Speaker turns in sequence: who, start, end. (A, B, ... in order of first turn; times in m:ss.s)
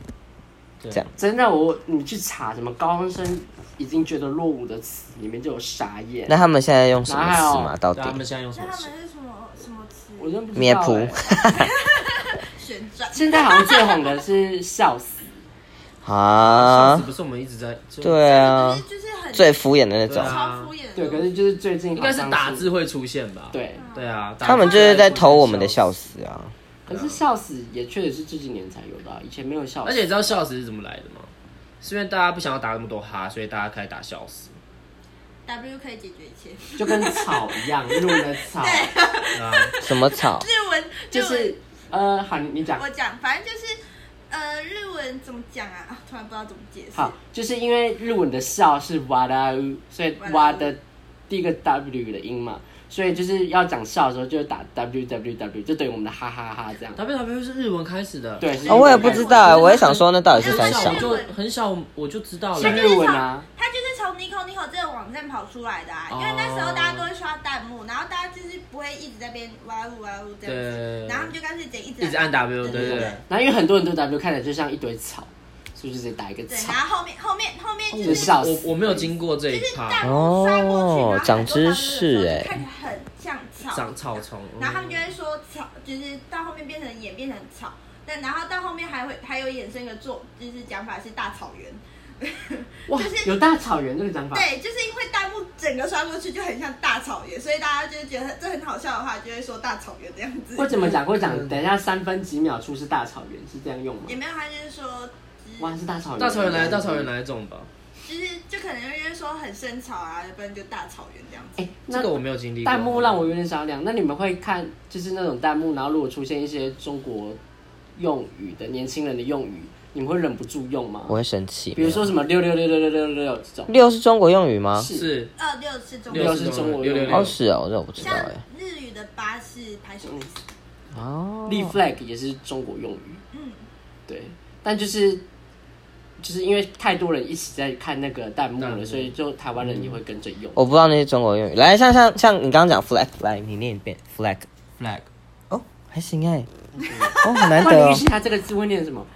0:00.8-0:01.0 A
0:01.2-0:06.4 B
0:06.3-0:08.2 C
0:07.1-0:07.7 B
0:07.9-0:08.9 A
0:08.5-0:10.4 D
0:10.2-0:11.2 B
0:10.6-0:11.7 C
0:11.5-0:14.1 D
0:13.1-0:15.4 B
0:16.0-0:17.0 C
0:16.4-0:18.2 A
0:18.0-0:20.3 C
0:18.2-0:19.6 D
0:20.1-0:20.7 A
0:20.1-0:21.3 D
0:20.9-0:22.7 B
0:21.9-0:25.8 A
0:23.5-0:23.8 B
0:23.7-0:25.1 D
0:24.4-0:26.5 C
0:26.9-0:30.0 B
0:26.9-0:27.2 A
0:29.8-0:34.6 A
0:35.4-0:41.6 D
0:36.8-0:38.9 B
0:39.3-0:39.8 A
0:39.8-0:40.4 C
0:41.1-0:42.8 B
0:42.8-0:47.1 D
0:46.9-0:57.0 B
0:50.2-0:50.7 D
0:57.0-1:03.0 A
0:58.4-0:59.6 B
0:58.6-1:01.3 D
0:58.7-1:01.1 C
1:02.6-1:03.4 B
1:02.6-1:13.2 D
1:06.1-1:07.1 A
1:10.4-1:11.3 A
1:12.0-1:13.2 A
1:12.7-1:16.8 B
1:16.5-1:18.4 D
1:17.9-1:20.1 A
1:18.0-1:19.1 B
1:19.5-1:23.9 D
1:20.0-1:22.5 C
1:23.7-1:25.0 A
1:24.6-1:33.4 D
1:33.2-1:34.5 B
1:34.3-1:41.0 D
1:40.6-1:44.2 B
1:40.8-1:41.6 A
1:44.0-1:45.8 D
1:45.6-1:47.1 B
1:46.2-1:47.7 A
1:48.0-1:51.7 D
1:51.6-1:57.4 B
1:51.9-1:53.3 A
1:58.0-2:01.1 B
2:01.1-2:02.1 C
2:01.7-2:03.7 B
2:03.7-2:04.9 C
2:04.8-2:05.1 B
2:04.9-2:05.3 A
2:05.4-2:06.6 D
2:06.1-2:07.3 A
2:06.1-2:07.3 B
2:07.1-2:08.4 C
2:08.0-2:10.3 D
2:10.9-2:11.8 C
2:11.4-2:13.2 B
2:13.3-2:13.6 D
2:14.1-2:15.2 B
2:16.2-2:20.6 B
2:18.6-2:19.1 A
2:20.5-2:24.5 C
2:24.8-2:25.1 A
2:25.5-2:26.5 C
2:26.8-2:29.1 B
2:27.0-2:27.7 D
2:27.1-2:28.0 C